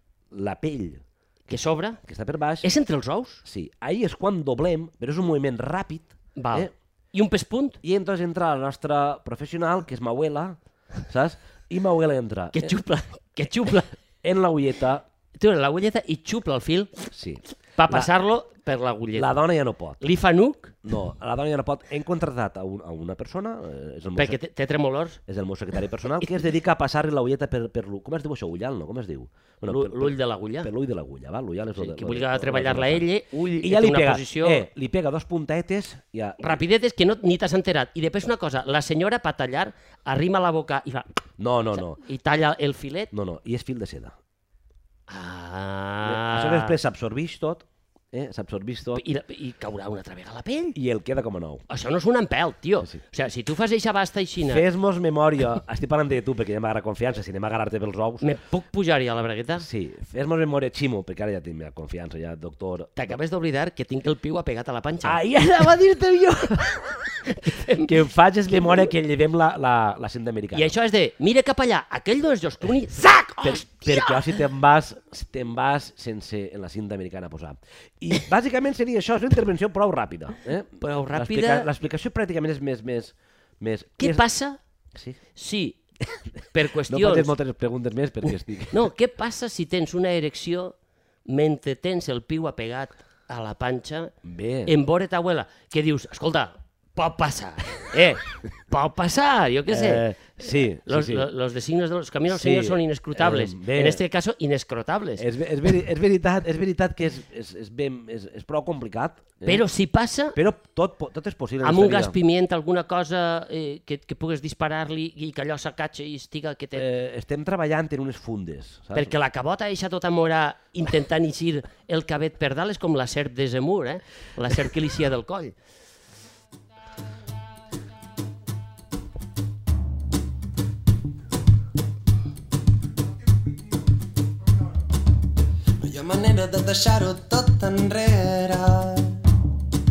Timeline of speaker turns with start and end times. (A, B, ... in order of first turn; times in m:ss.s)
0:00.3-0:02.7 A
0:01.5-0:02.0 B
0:02.6-0:03.4 B
0:03.4-0:06.7 A
0:06.4-0:07.8 B
0:07.8-0:12.7 A
0:12.5-0:14.0 B
0:14.2-0:15.0 A
0:15.4-0:17.1 B
0:17.1-0:18.1 A
0:17.8-0:19.3 B
0:19.2-0:20.0 A
0:20.0-0:20.8 B
0:20.8-0:24.4 A
0:24.2-0:25.2 B
0:25.3-0:33.1 A
0:29.6-0:30.7 B
0:31.7-0:34.7 B
0:33.6-0:36.6 A
0:36.4-0:41.1 B
0:41.4-0:42.0 A
0:41.7-0:43.1 B
0:43.1-0:44.2 A
0:45.1-0:46.8 B
0:46.0-0:49.0 A
0:48.9-0:50.8 B
0:50.7-0:51.6 A
0:51.7-0:54.6 B
0:54.4-0:58.2 A
0:58.2-0:59.7 B
0:59.6-1:02.9 A
1:03.0-1:05.2 B
1:05.0-1:10.7 A
1:07.1-1:08.0 B
1:08.5-1:08.9 B
1:10.5-1:14.4 B
1:13.0-1:24.2 A
1:20.8-1:21.7 B
1:24.0-1:24.6 B
1:25.3-1:25.8 B
1:26.5-1:27.3 B
1:26.8-1:28.9 A
1:28.7-1:30.7 B
1:31.3-1:34.1 B
1:34.2-1:34.7 A
1:34.6-1:45.3 B
1:39.7-1:41.3 A
1:42.3-1:44.0 A
1:45.2-1:49.6 A
1:49.4-1:50.4 B
1:50.3-1:52.2 A
1:51.6-1:56.8 B
1:56.8-1:59.2 A
1:58.9-2:05.6 B
2:15.8-2:19.3 C